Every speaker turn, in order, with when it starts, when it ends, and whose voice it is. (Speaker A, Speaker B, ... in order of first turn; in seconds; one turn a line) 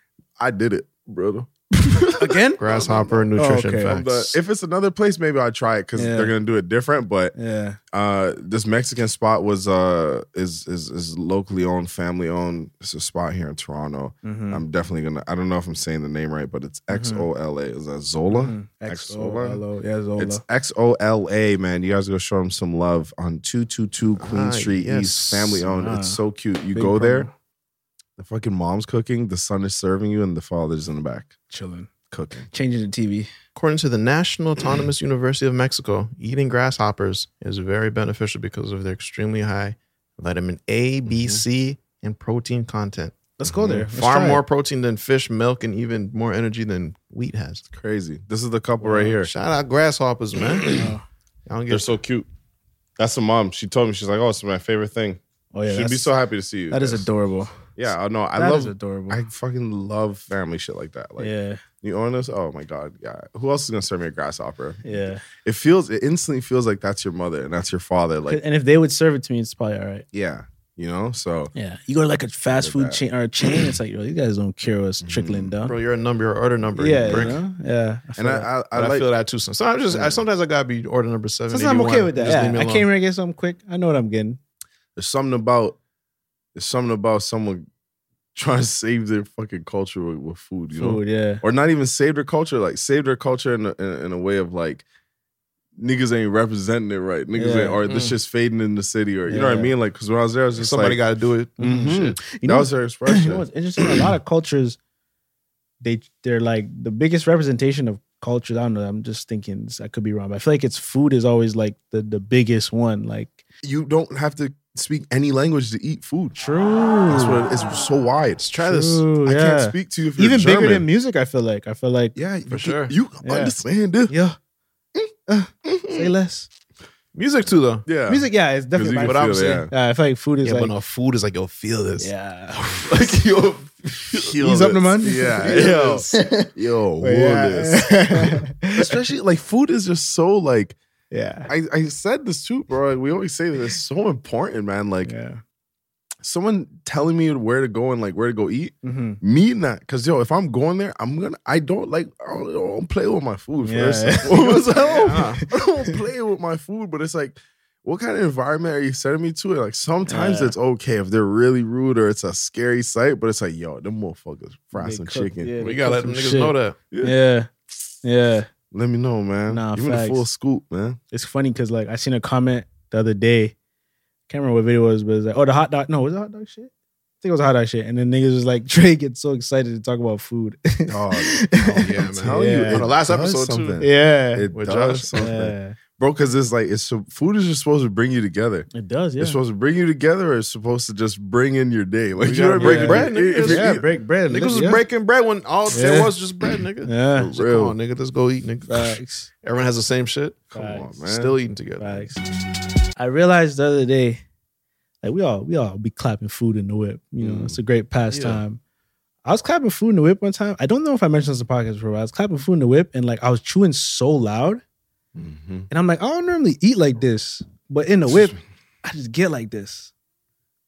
Speaker A: 0.4-3.3
Speaker B: 2.2-2.6
Speaker C: 2.6-4.4
Speaker B: 3.4-4.0
Speaker A: 3.9-7.3
Speaker B: 6.0-6.3
Speaker B: 7.3-7.8
Speaker A: 7.9-19.6
Speaker B: 14.2-14.6
Speaker B: 16.9-17.3
Speaker B: 18.3-20.4
Speaker A: 20.2-27.3
Speaker C: 24.2-25.6
Speaker B: 25.7-26.2
Speaker B: 26.7-27.3
Speaker A: 28.2-31.3
Speaker B: 31.5-31.9
Speaker A: 32.1-32.5
Speaker B: 32.5-33.3
Speaker C: 33.5-43.2
Speaker A: 41.1-41.4
Speaker B: 43.4-44.4
Speaker A: 43.5-43.9
Speaker C: 43.8-47.6
Speaker A: 47.7-49.3
Speaker C: 48.9-50.9
Speaker B: 50.7-51.0
Speaker C: 51.5-52.0
Speaker A: 51.7-52.3
Speaker A: 53.0-57.1
Speaker B: 55.5-56.1
Speaker B: 56.7-57.5
Speaker A: 57.8-68.4
Speaker B: 58.4-59.2
Speaker B: 61.2-61.6
Speaker B: 64.8-65.2
Speaker B: 68.3-70.0
Speaker A: 70.1-71.5
Speaker B: 71.5-75.8
Speaker A: 72.5-73.0
Speaker A: 75.0-75.5
Speaker C: 75.6-77.4
Speaker B: 76.8-78.5
Speaker A: 77.0-77.4
Speaker A: 78.2-79.1
Speaker C: 78.7-82.9
Speaker A: 79.9-80.2
Speaker B: 81.5-84.4
Speaker A: 85.0-85.8
Speaker A: 86.5-87.7
Speaker A: 88.3-94.8
Speaker B: 90.8-91.4
Speaker A: 95.8-101.0
Speaker B: 97.3-97.8
Speaker C: 97.9-98.2
Speaker B: 99.3-99.8
Speaker C: 100.6-102.2
Speaker B: 101.6-104.8
Speaker A: 101.6-103.5
Speaker B: 105.8-113.4
Speaker A: 113.6-116.4
Speaker B: 116.4-117.4
Speaker A: 117.1-118.4
Speaker C: 118.4-119.0
Speaker B: 118.6-122.2
Speaker A: 119.2-120.9
Speaker A: 122.2-124.1
Speaker C: 122.5-122.9
Speaker B: 123.2-123.5
Speaker B: 124.1-124.4
Speaker B: 125.3-126.5
Speaker A: 125.7-126.1
Speaker C: 127.2-127.9
Speaker A: 127.9-129.7
Speaker B: 128.1-130.7
Speaker C: 129.0-129.7
Speaker C: 130.4-132.1
Speaker B: 132.0-132.9
Speaker C: 132.8-134.3
Speaker A: 134.1-140.8
Speaker B: 134.4-136.5
Speaker C: 135.4-136.2
Speaker B: 137.0-139.0
Speaker B: 141.1-141.5
Speaker A: 141.5-145.1
Speaker B: 145.1-145.4
Speaker A: 146.2-165.5
Speaker B: 148.8-149.2
Speaker B: 153.6-154.3
Speaker C: 154.2-155.4
Speaker B: 160.1-160.6
Speaker B: 164.8-167.5
Speaker C: 165.6-166.8
Speaker A: 166.9-167.2
Speaker B: 168.0-168.5
Speaker A: 168.7-171.0
Speaker B: 169.5-170.3
Speaker B: 171.1-173.5
Speaker B: 174.3-176.7
Speaker B: 177.2-182.9
Speaker A: 180.9-193.9
Speaker C: 181.6-183.8
Speaker B: 183.8-184.5
Speaker C: 184.5-185.1
Speaker B: 185.1-185.8
Speaker B: 188.7-189.4
Speaker C: 192.2-200.5
Speaker B: 192.6-194.8
Speaker B: 195.7-196.2
Speaker B: 196.8-197.3
Speaker A: 197.2-197.8
Speaker B: 198.7-199.3
Speaker A: 200.5-201.3
Speaker B: 200.5-200.9
Speaker C: 201.1-202.1
Speaker B: 201.8-202.2
Speaker B: 203.0-204.2
Speaker B: 205.0-208.6
Speaker A: 207.2-207.6
Speaker C: 208.1-208.4
Speaker B: 209.2-214.6
Speaker A: 215.2-215.7
Speaker B: 215.7-219.9
Speaker A: 218.1-218.4